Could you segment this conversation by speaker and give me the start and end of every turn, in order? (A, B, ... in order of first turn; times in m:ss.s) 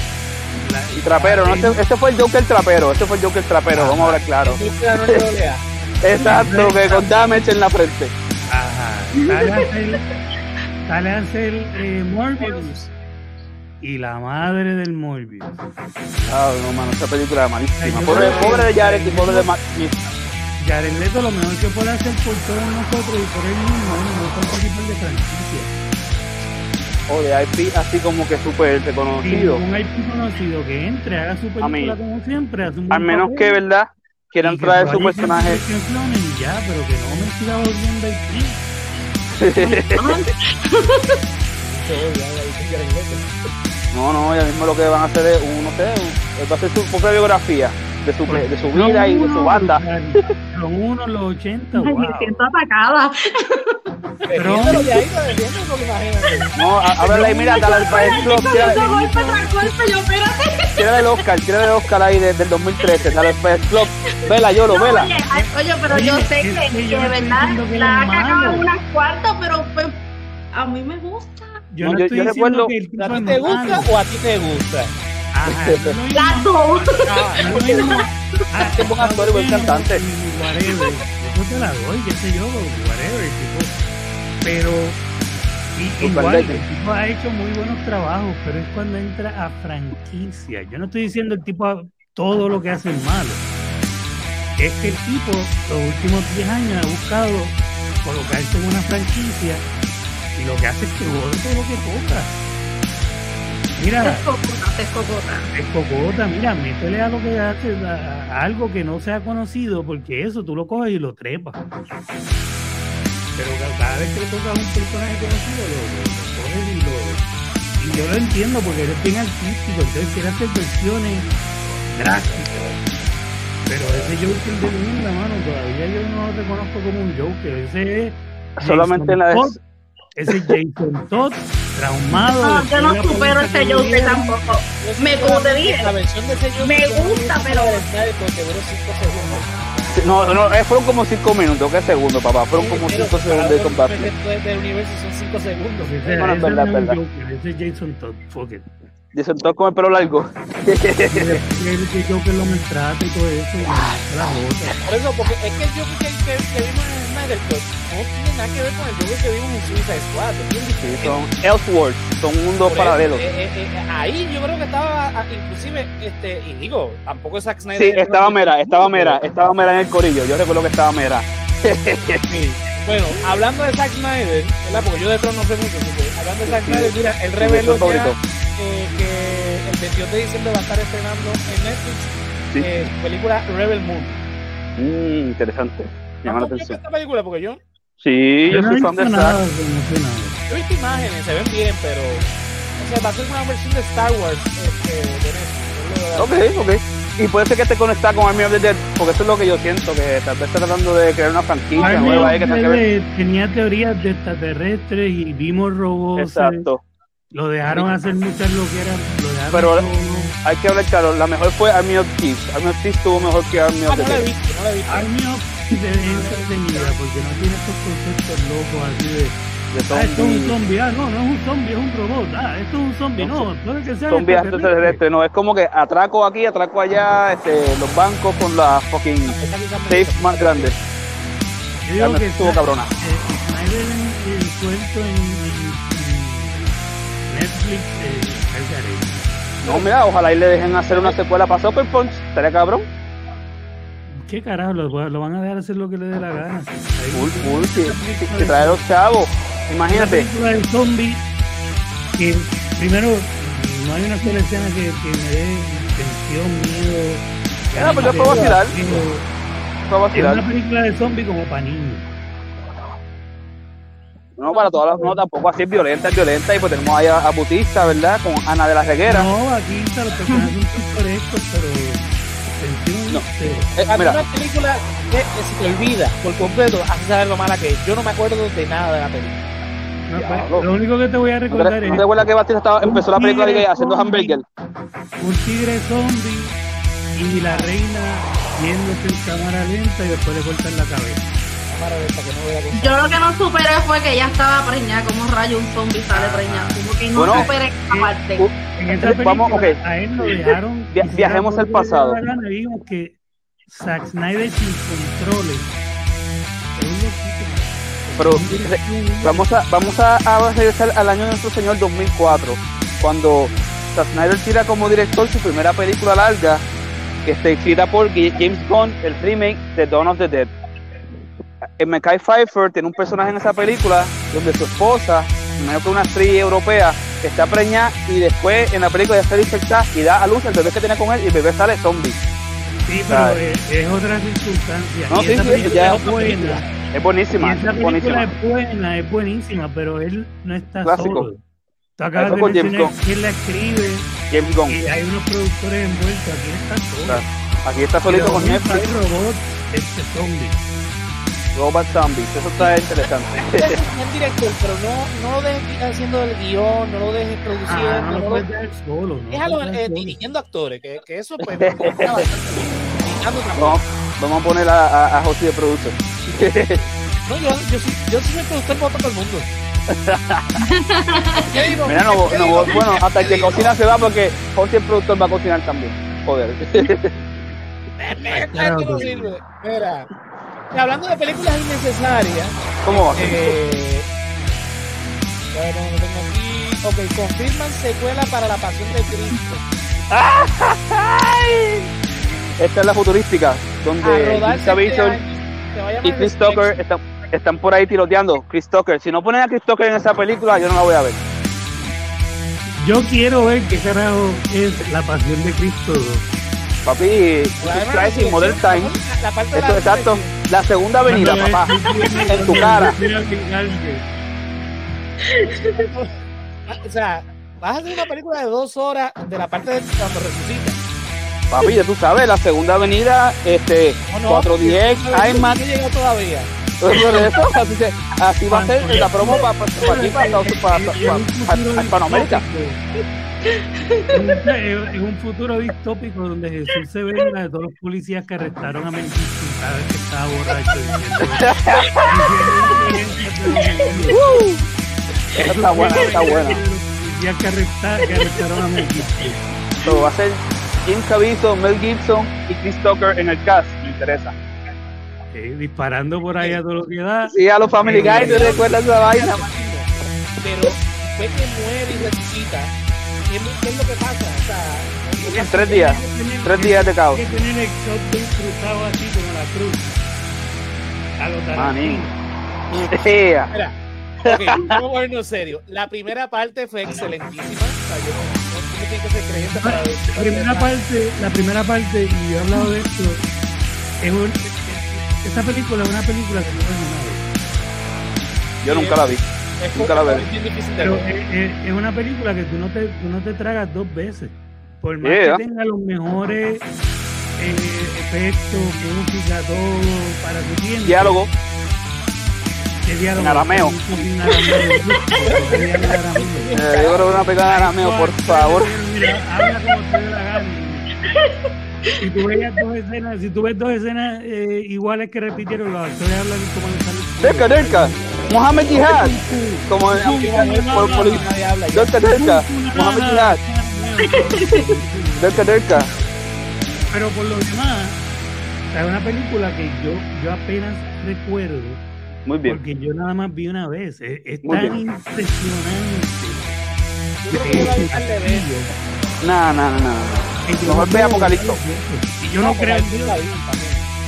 0:00.6-0:01.8 A
0:01.0-0:04.6 B
0:03.7-0:04.2 A
0:04.4-0:05.7 C
0:06.0-0:08.1 B
0:06.2-0:06.8 A
0:06.2-0:07.1 C
0:08.5-0:10.0 A
0:09.2-0:09.7 D
0:10.9-0:12.8 A
0:12.4-0:12.9 C
0:13.8-0:15.6 A
0:16.3-0:20.0 B
0:17.8-0:19.5 A
0:18.1-0:18.8 C
0:20.6-0:25.7 A
0:27.1-0:29.6 B
0:29.2-0:33.6 A
0:31.6-0:32.0 B
0:32.9-0:35.6 B
0:34.4-0:38.6 A
0:39.4-0:40.2 B
0:39.6-0:41.2 D
0:41.6-0:43.3 C
0:43.9-0:50.3 B
0:48.3-0:52.4 A
0:51.8-0:53.8 D
0:54.2-0:56.5 C
0:54.4-0:55.0 A
0:56.6-0:58.8 B
0:57.0-1:01.1 D
0:57.1-0:59.7 A
1:00.8-1:05.1 B
1:04.7-1:10.0 D
1:05.3-1:08.7 A
1:10.5-1:11.5 D
1:11.7-1:13.9 A
1:11.8-1:12.7 B
1:13.0-1:14.9 C
1:15.3-1:16.5 A
1:15.5-1:15.9 B
1:16.2-1:18.0 D
1:16.9-1:17.8 C
1:17.4-1:23.8 A
1:18.8-1:20.0 B
1:24.4-1:25.0 A
1:25.8-1:33.4 A
1:26.0-1:26.6 B
1:34.6-1:39.6 A
1:40.4-1:42.4 A
1:43.8-1:44.3 A
1:44.0-1:45.5 D
1:45.5-1:51.6 A
1:53.4-1:57.2 A
1:57.8-2:01.3 A
2:01.9-2:02.6 A
2:03.7-2:09.6 A
2:08.6-2:09.6 B
2:10.2-2:14.4 A
2:12.1-2:15.9 D
2:14.8-2:19.5 C
2:16.6-2:17.8 D
2:19.9-2:24.1 B
2:22.5-2:26.2 C
2:25.8-2:28.7 A
2:26.2-2:27.0 B
2:29.1-2:31.4 B
2:31.1-2:34.8 A
2:33.7-2:34.0 B
2:34.8-2:41.2 C
2:40.8-2:43.2 B
2:42.6-2:49.2 C
2:47.8-2:52.2 B
2:52.3-3:04.2 C
2:56.5-2:58.2 B
3:04.8-3:06.8 B
3:06.2-3:07.6 C
3:08.0-3:09.4 B
3:08.5-3:10.4 A
3:10.5-3:16.5 C
3:16.2-3:22.8 B
3:21.8-3:22.4 C
3:21.8-3:26.7 A
3:26.2-3:26.8 B
3:27.3-3:30.4 A
3:29.5-3:29.9 B
3:30.4-3:34.2 B
3:33.9-3:35.1 C
3:34.9-3:39.4 A
3:36.0-3:36.9 C
3:39.7-3:40.5 B
3:39.9-3:45.0 A
3:43.2-3:43.5 B
3:44.1-3:49.4 B
3:49.3-3:50.8 C
3:49.9-3:50.7 B
3:51.8-3:56.7 A
3:52.0-3:52.9 B
3:57.3-3:59.2 A
3:59.6-4:02.9 B
4:00.9-4:01.2 C
4:04.1-4:08.9 A
4:07.1-4:10.3 B
4:09.9-4:11.2 A
4:12.2-4:19.3 A
4:17.8-4:19.0 B
4:19.9-4:20.4 B
4:20.1-4:22.1 A
4:24.4-4:29.3 B
4:29.0-4:33.7 A
4:33.8-4:34.2 B
4:33.9-4:39.5 C
4:40.1-4:42.3 A
4:40.2-4:40.6 B
4:41.5-4:44.4 B
4:42.8-4:44.4 A
4:45.2-4:46.6 A
4:47.1-4:51.3 A
4:47.3-4:47.7 C
4:51.7-4:53.1 C
4:52.8-4:58.4 D
4:56.1-4:58.1 A
4:57.2-4:57.5 B
4:58.4-5:00.4 B
4:58.8-5:05.7 A
5:00.9-5:02.2 B
5:06.8-5:09.5 A
5:08.2-5:16.6 B
5:17.2-5:20.5 B
5:21.8-5:32.2 B
5:32.9-5:36.7 A
5:33.1-5:33.4 B
5:35.1-5:36.0 B
5:35.4-5:36.7 C
5:36.9-5:38.3 B
5:37.4-5:41.4 A
5:40.8-5:41.3 B
5:42.0-5:44.1 A
5:42.2-5:42.9 B
5:44.3-5:44.8 B
5:44.7-5:47.2 A
5:47.1-5:48.9 B
5:48.1-5:50.7 A
5:51.6-5:53.8 B
5:53.4-5:58.5 C
5:57.7-6:00.2 A
5:59.3-6:03.8 C
6:01.6-6:02.2 B
6:03.6-6:06.8 B
6:07.3-6:09.5 C
6:09.9-6:10.6 B
6:10.6-6:11.7 D
6:11.5-6:13.8 C
6:11.9-6:17.1 B
6:18.0-6:20.1 C
6:18.3-6:19.4 A
6:20.7-6:24.1 C
6:22.8-6:23.6 B
6:25.5-6:29.6 C
6:30.1-6:31.9 B
6:32.6-6:35.2 B
6:34.0-6:36.8 C
6:36.0-6:41.2 B
6:42.8-6:46.2 A
6:46.8-6:49.0 B
6:47.6-6:50.3 C
6:49.5-6:51.7 B
6:51.1-6:54.0 A
6:51.8-6:52.2 D
6:52.3-6:53.0 B
6:55.3-6:55.9 D
6:55.5-6:56.1 C
6:56.7-7:00.8 C
7:01.5-7:05.6 B
7:04.1-7:06.5 C
7:06.8-7:12.4 B
7:08.5-7:12.8 A
7:13.5-7:14.4 D
7:14.1-7:24.2 A
7:21.4-7:22.2 B
7:24.1-7:24.6 B
7:25.4-7:26.6 B
7:25.4-7:29.4 A
7:29.8-7:34.3 B
7:35.3-7:38.6 A
7:37.3-7:39.5 B
7:37.9-7:39.9 C
7:40.4-7:42.7 C
7:43.3-7:45.6 C
7:45.2-7:49.9 A
7:45.4-7:47.2 B
7:51.2-7:52.1 A
7:51.6-7:52.1 B
7:52.7-7:53.5 B
7:53.5-8:00.7 C
7:54.2-7:54.8 B
7:59.6-8:03.2 A
8:04.0-8:07.3 A
8:08.6-8:09.2 B
8:08.6-8:09.0 C
8:09.6-8:11.0 C
8:09.8-8:10.3 B
8:10.8-8:16.7 A
8:15.0-8:15.4 B
8:17.4-8:21.2 A
8:20.8-8:21.3 B
8:22.8-8:26.5 A
8:23.2-8:23.8 B
8:24.3-8:24.8 D
8:25.2-8:27.3 C
8:26.5-8:28.7 B
8:27.4-8:30.9 A
8:31.0-8:31.3 D
8:32.0-8:38.0 A
8:37.2-8:39.2 B
8:38.7-8:41.3 A
8:39.7-8:43.4 B
8:39.9-8:41.9 C
8:42.0-8:46.0 A
8:44.0-8:44.6 D
8:45.2-8:45.9 B
8:46.9-8:48.0 A
8:48.7-8:51.8 A
8:52.3-8:52.6 B
8:52.4-8:56.5 A
8:54.4-8:54.8 B
8:57.2-8:58.7 C
8:57.3-8:58.6 A
8:59.2-9:01.6 B
9:00.5-9:03.2 A
9:02.4-9:03.9 C